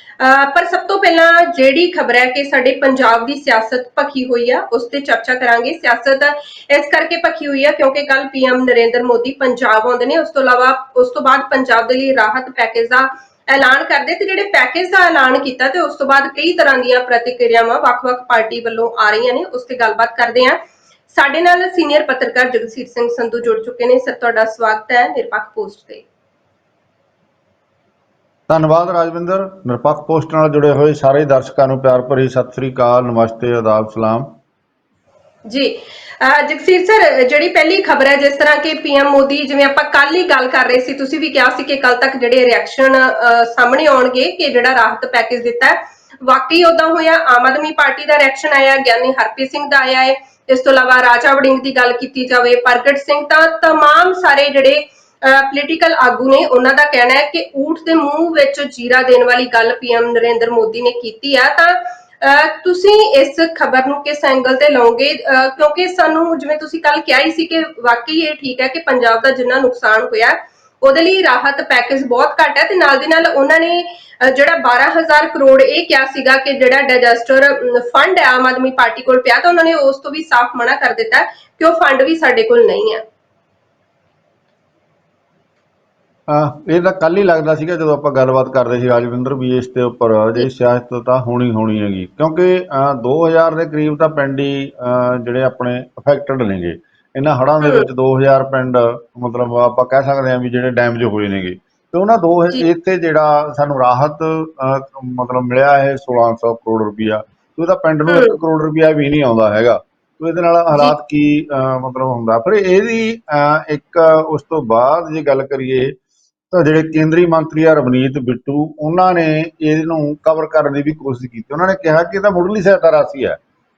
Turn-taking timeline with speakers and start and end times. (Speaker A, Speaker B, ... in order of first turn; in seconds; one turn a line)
Speaker A: 0.2-20.6
Speaker A: 21.1-26.0
Speaker B: 28.5-34.3
Speaker A: 35.5-83.0
Speaker B: 86.3-116.0
Speaker A: 97.6-97.9
Speaker A: 108.1-108.4
Speaker B: 116.5-123.4